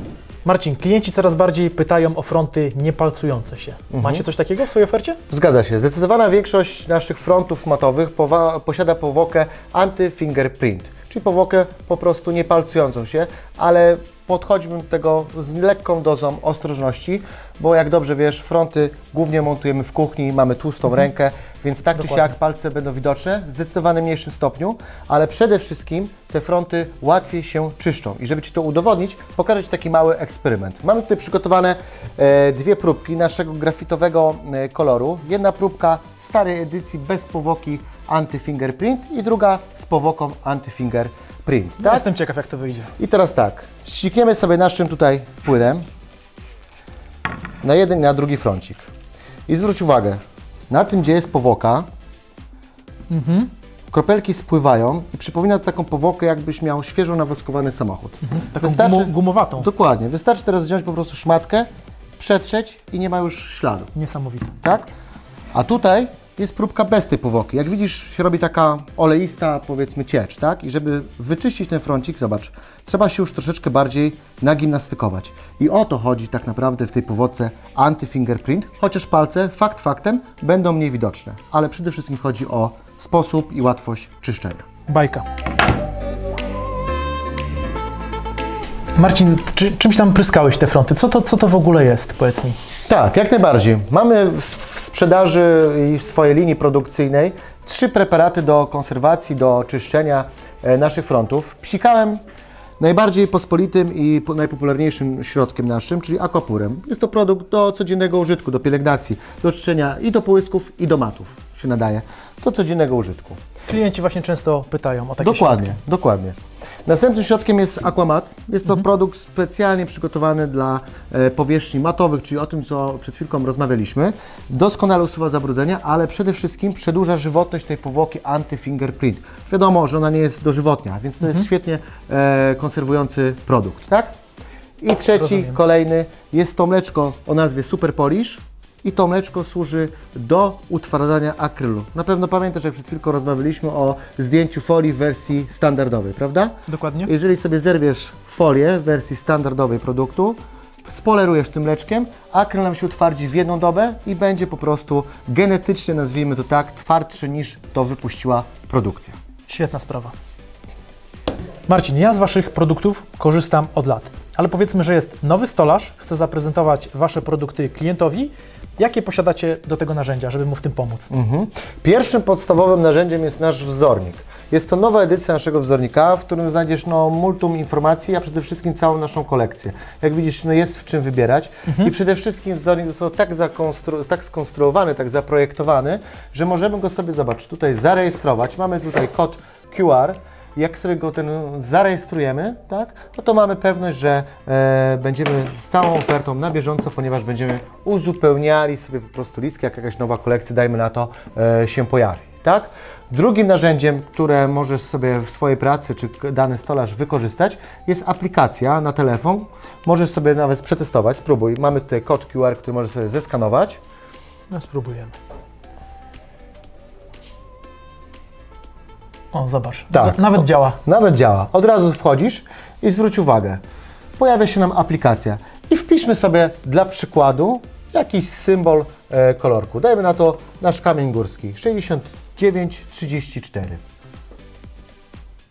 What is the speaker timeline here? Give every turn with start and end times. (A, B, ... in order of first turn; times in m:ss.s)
0:00.4-0:05.2 A
0:03.9-0:04.2 B
0:05.3-0:42.1 B
0:22.0-0:22.2 A
0:41.8-0:42.9 A
0:43.0-0:45.8 B
0:47.6-0:48.9 B
0:49.5-0:51.8 B
0:53.1-0:53.5 A
0:53.9-1:01.7 B
0:58.2-0:59.7 A
1:02.2-1:03.9 B
1:03.9-1:04.5 A
1:04.6-1:04.9 B
1:05.5-1:24.6 B
1:24.9-1:25.2 A
1:29.0-1:32.6 A
1:32.9-1:42.2 B
1:42.8-1:53.4 B
1:53.7-1:55.8 A
1:55.2-1:56.3 B
1:56.8-2:14.1 B
2:14.8-2:26.5 B
2:15.2-2:15.6 A
2:26.7-2:27.1 A
2:27.0-2:39.2 B
2:39.5-2:40.1 A
2:41.7-2:51.1 A
2:51.1-3:33.8 B
3:01.7-3:01.9 A
3:34.5-3:35.1 A
3:39.3-3:40.8 A
3:39.9-3:43.6 B
3:44.2-3:53.8 B